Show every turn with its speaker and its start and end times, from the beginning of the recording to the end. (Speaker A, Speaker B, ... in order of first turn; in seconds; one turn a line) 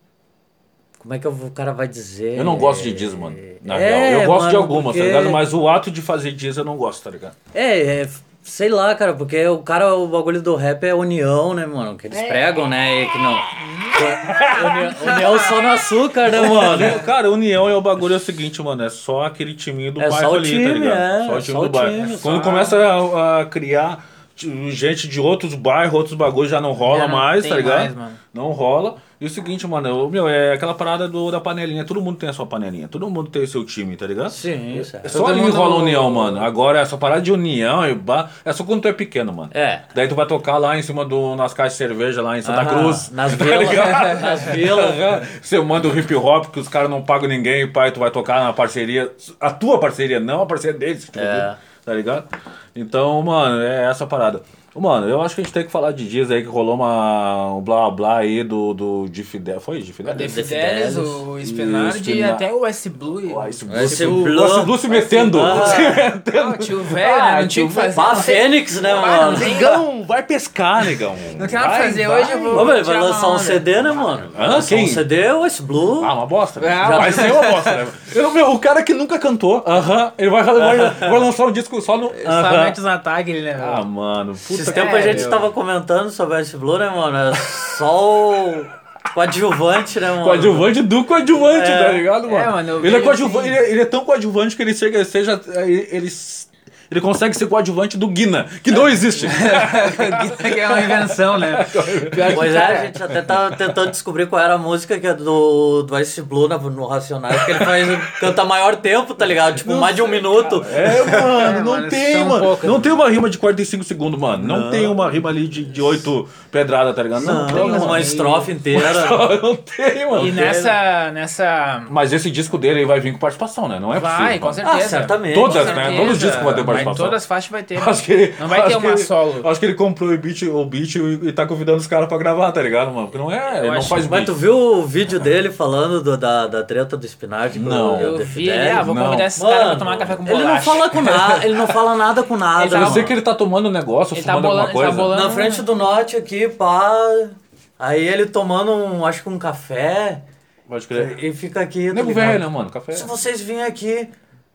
Speaker A: 1.0-5.4
Speaker B: 2.4-7.3
Speaker A: 7.5-17.0
Speaker B: 12.1-12.6
Speaker C: 13.6-14.1
Speaker B: 13.9-15.5
Speaker C: 14.8-15.6
Speaker B: 16.2-60.4
Speaker A: 20.0-22.4
Speaker C: 21.9-22.8
Speaker C: 26.8-28.2
Speaker A: 34.3-36.0
Speaker C: 35.1-36.4
Speaker A: 39.5-39.9
Speaker A: 42.4-45.3
Speaker A: 51.1-51.6
Speaker C: 60.1-64.4
Speaker A: 60.1-61.3
Speaker B: 61.4-62.5
Speaker B: 63.3-68.4
Speaker A: 63.7-66.1
Speaker C: 65.0-69.8
Speaker A: 67.9-69.7
Speaker B: 69.0-72.8
Speaker C: 70.8-74.3
Speaker A: 72.5-76.1
Speaker B: 74.3-75.1
Speaker B: 76.0-82.8
Speaker C: 76.6-77.8
Speaker A: 76.8-77.4
Speaker A: 80.6-81.3
Speaker C: 82.1-83.9
Speaker B: 83.6-85.3
Speaker C: 84.5-85.5
Speaker A: 84.6-92.1
Speaker B: 90.2-102.5
Speaker C: 92.2-93.6
Speaker C: 99.3-103.0
Speaker A: 102.3-111.4
Speaker B: 107.4-108.2
Speaker B: 109.6-118.1
Speaker C: 110.8-113.0
Speaker A: 114.4-115.0
Speaker A: 117.2-119.3
Speaker C: 117.2-118.5
Speaker B: 118.7-120.5
Speaker C: 120.1-121.9
Speaker A: 120.1-120.8
Speaker B: 121.9-127.2
Speaker C: 123.9-129.5
Speaker A: 124.6-126.5
Speaker B: 127.8-134.3
Speaker C: 133.6-134.0
Speaker A: 134.1-143.2
Speaker B: 137.5-139.3
Speaker C: 138.0-141.8
Speaker C: 142.6-143.2
Speaker B: 142.7-145.1
Speaker C: 144.1-145.7
Speaker A: 145.1-150.2
Speaker B: 150.7-151.2
Speaker A: 150.9-154.1
Speaker B: 151.9-153.1